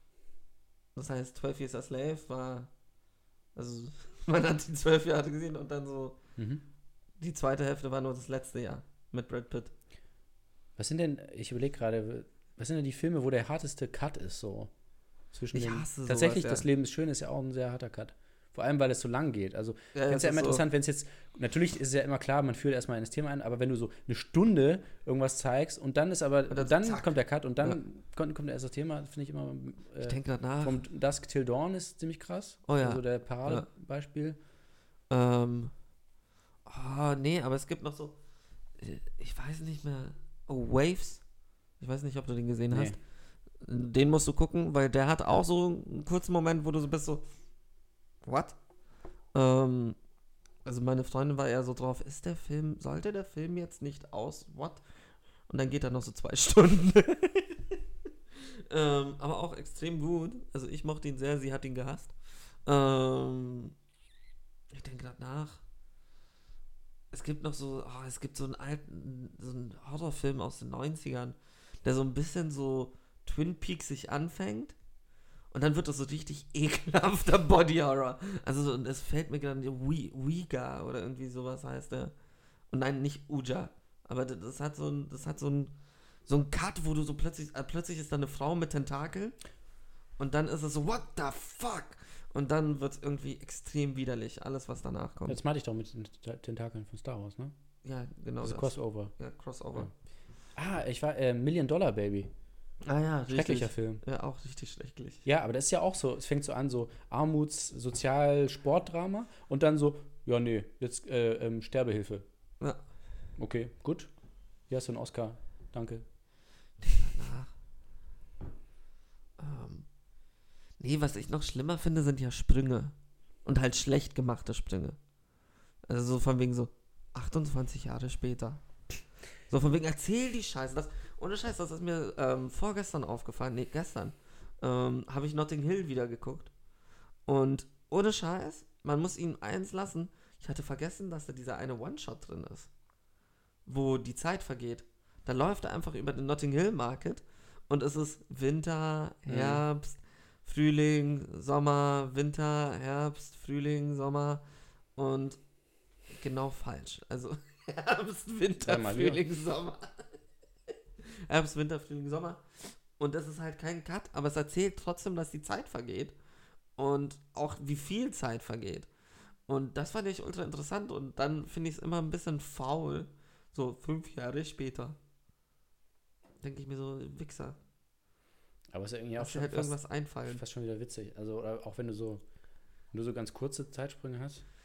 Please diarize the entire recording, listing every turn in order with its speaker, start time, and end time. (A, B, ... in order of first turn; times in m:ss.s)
0:01.0-0:02.7 A
0:03.6-0:06.2 A
0:06.4-0:06.6 B
0:07.2-0:09.7 A
0:10.8-0:14.7 B
0:15.3-0:34.4 B
0:15.5-0:16.7 A
0:19.9-0:20.6 A
0:26.5-0:27.8 A
0:30.0-0:30.8 A
0:32.7-0:33.7 A
0:35.1-0:35.7 A
0:36.7-0:38.2 A
0:38.8-0:41.2 A
0:41.8-0:43.0 A
0:42.7-0:43.0 B
0:43.5-0:47.2 A
0:48.2-0:48.6 A
0:49.3-0:50.0 A
0:50.6-0:54.8 A
0:55.5-0:57.6 A
0:58.7-1:03.7 A
1:04.7-1:05.6 A
1:07.1-1:14.8 A
1:15.5-1:22.1 A
1:22.7-1:25.8 A
1:26.3-1:29.4 A
1:30.2-1:35.4 A
1:35.3-1:37.5 B
1:37.8-1:39.9 A
1:38.4-1:39.1 B
1:40.6-1:42.3 B
1:42.8-1:45.2 A
1:43.3-1:44.0 B
1:45.2-1:52.2 B
1:53.4-1:54.1 B
1:54.7-1:56.0 B
1:56.8-1:57.5 A
1:59.4-1:59.9 A
2:00.8-2:05.0 A
2:05.9-2:08.6 A
2:09.5-2:16.5 A
2:17.3-2:22.7 A
2:23.7-2:34.4 A
2:29.3-2:29.6 B
2:35.0-2:35.4 A
2:36.2-2:40.1 A
2:38.6-2:39.2 B
2:41.0-2:46.2 A
2:46.8-2:48.9 A
2:49.5-2:55.0 A
2:56.4-2:57.6 A
2:58.7-3:02.2 B
2:59.2-3:00.4 A
3:02.9-3:04.4 B